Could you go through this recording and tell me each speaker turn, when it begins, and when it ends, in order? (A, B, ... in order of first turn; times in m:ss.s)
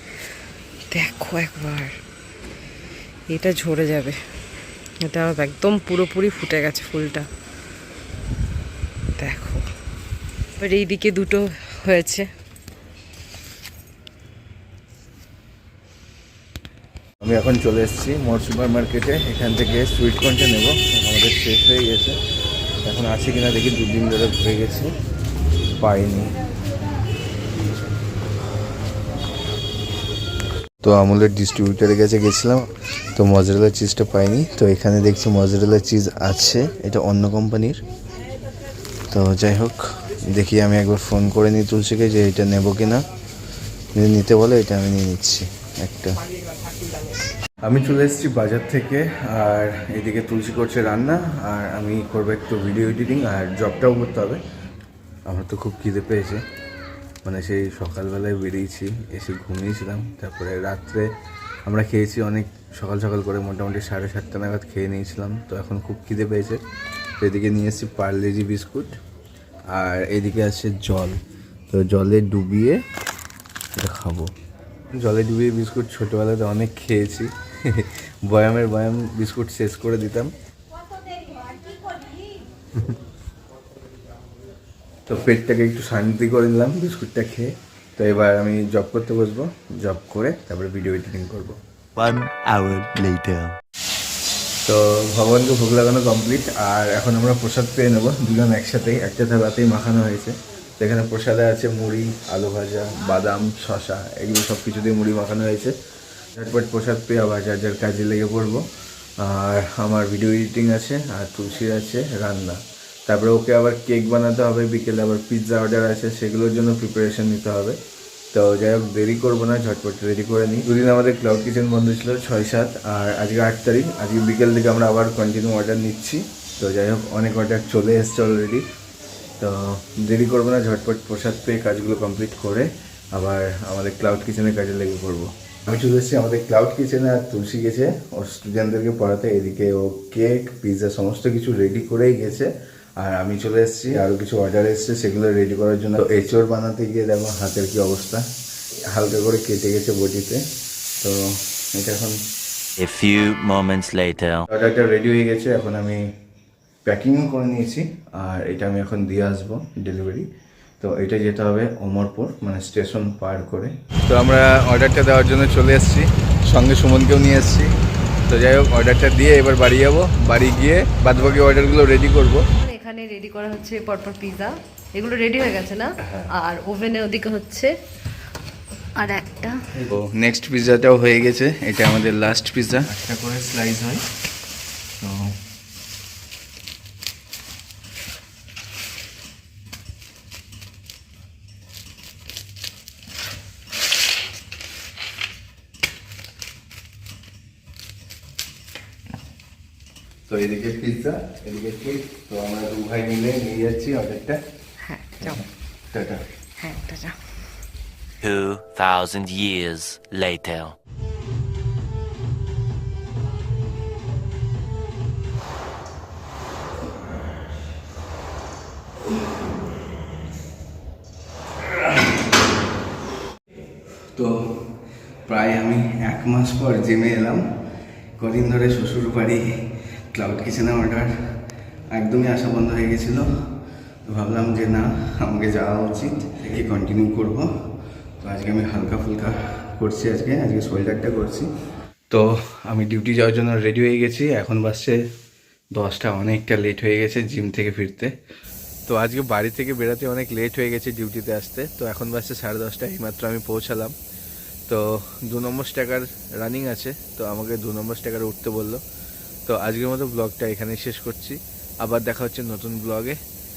0:00.9-0:01.9 A
0:03.3-0:04.2 A
0:05.0-0:07.2 A
0:09.2-0:09.6 A
0:10.6-0:12.3 A
0:17.2-0:22.2 B
0:22.8-0:24.9 B
0:25.8-0:26.3 B
0:30.8-0:37.8 B
0:39.1-0:43.0 B
0:44.0-0:46.1 B
0:47.6-0:54.4 B
0:55.3-0:56.4 B
0:57.2-1:01.0 B
1:01.6-1:06.6 B
1:07.2-1:08.9 B
1:09.7-1:11.2 B
1:11.7-1:12.8 B
1:13.8-1:14.3 B
1:15.0-1:20.3 B
1:25.1-1:31.6 B
1:32.0-1:33.6 C
1:34.6-1:45.7 B
1:46.4-1:48.6 B
1:49.2-1:57.8 B
1:58.3-2:08.6 B
2:09.4-2:28.2 B
2:28.9-2:30.4 B
2:31.0-2:32.2 B
2:32.8-2:34.4 C
2:34.5-2:36.0 B
2:36.8-2:40.3 B
2:40.8-2:47.7 B
2:48.3-2:52.4 B
2:52.6-2:57.7 A
2:59.0-2:59.5 A
2:59.8-3:04.0 B
3:05.0-3:05.3 B
3:20.3-3:24.4 B
3:24.9-3:25.4 A
3:25.2-3:26.2 B
3:26.6-3:27.2 A
3:28.2-3:30.7 C
3:44.1-3:44.4 B
3:45.2-3:47.4 B
3:48.2-3:49.4 B
3:50.1-3:51.1 B
3:51.9-3:53.3 B
3:54.1-3:57.5 B
3:58.2-4:01.5 B
4:02.1-4:05.0 B
4:05.7-4:08.1 B
4:08.9-4:13.9 B
4:14.7-4:18.8 B
4:19.5-4:23.2 B